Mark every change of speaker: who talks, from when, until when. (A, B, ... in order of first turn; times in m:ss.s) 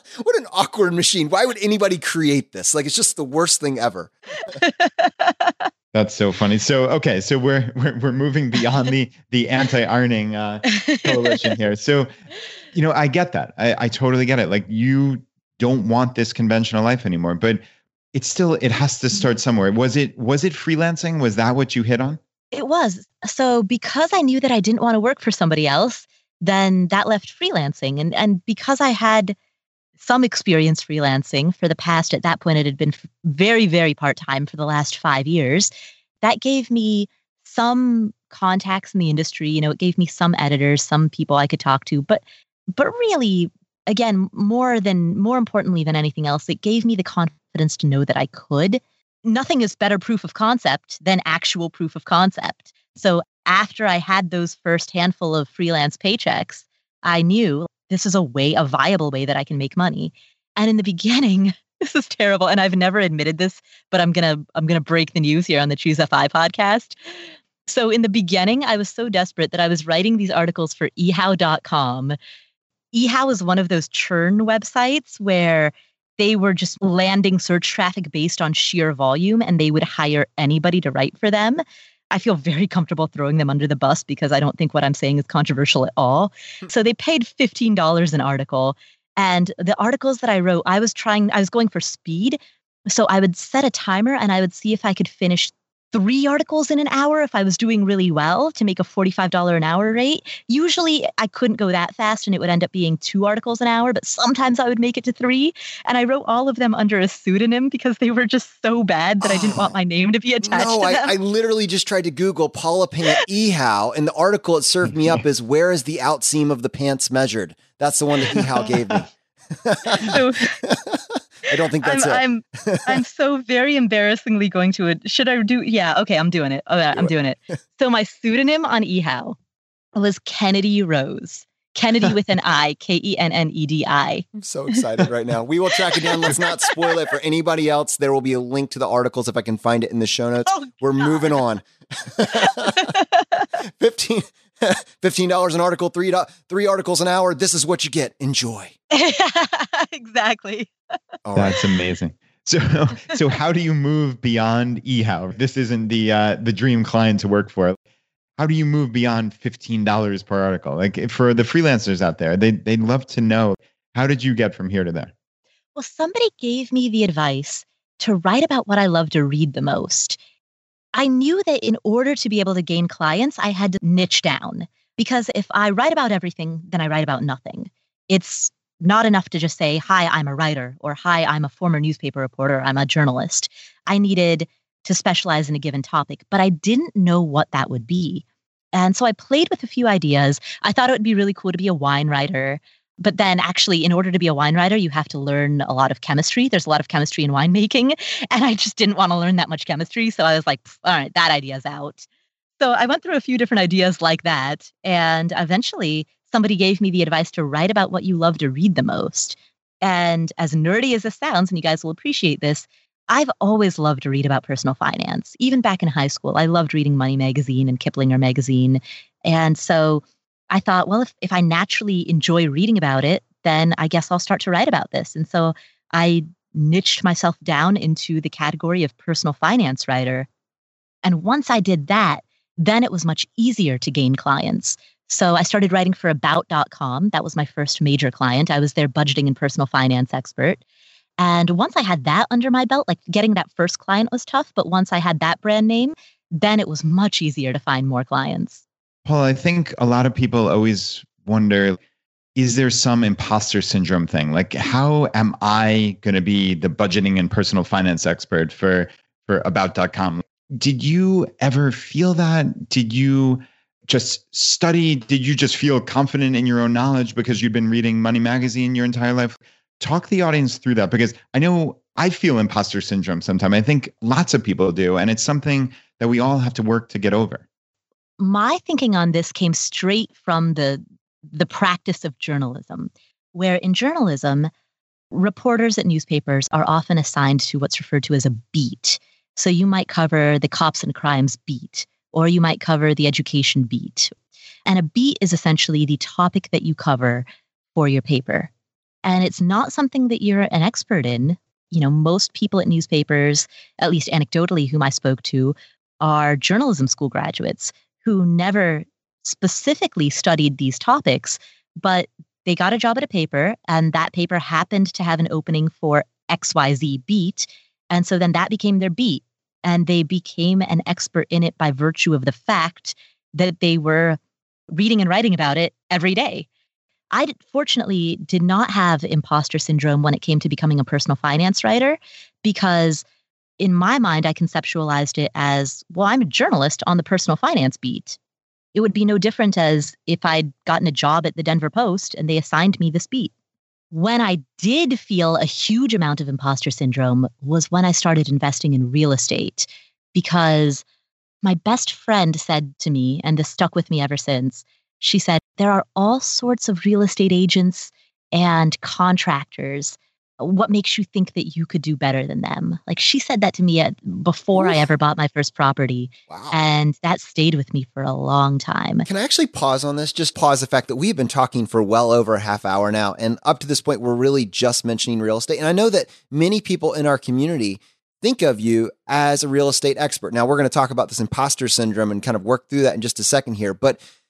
0:00.2-0:04.1 A
0:04.5-0:05.6 B
0:05.9-0:12.1 C
0:10.7-0:11.4 B
0:12.7-0:17.6 C
0:18.1-0:22.2 C
0:22.5-0:29.4 B
0:30.0-0:35.7 B
0:36.2-0:42.2 B
0:42.7-1:07.0 B
1:07.7-1:12.2 B
1:12.9-1:51.1 B
1:49.2-1:49.8 A
1:50.4-2:03.0 A
1:58.3-1:58.6 B
1:59.8-2:00.6 B
2:01.8-2:09.4 B
2:10.0-2:14.8 B
2:14.4-2:22.9 A
2:16.0-2:16.9 B
2:20.5-2:21.4 B
2:22.4-2:23.5 B
2:23.6-2:28.7 A
2:28.9-2:30.7 B
2:31.2-2:31.6 A
2:31.4-2:37.8 C
2:38.4-2:45.1 C
2:45.8-2:50.2 B
2:50.9-3:22.1 B
3:22.6-3:50.3 B
3:51.0-4:00.6 B
4:01.2-4:08.6 B
4:09.0-4:11.8 C
4:12.4-4:37.4 C
4:38.2-4:44.5 B
4:45.1-4:54.1 B
4:54.7-4:58.5 B
4:59.0-5:24.2 B
5:24.7-5:26.5 B
5:27.1-5:33.0 B
5:33.6-5:38.2 B
5:38.7-5:43.3 B
5:43.9-5:50.8 B
5:51.4-6:09.1 B
6:06.3-6:06.6 A
6:09.0-6:24.0 A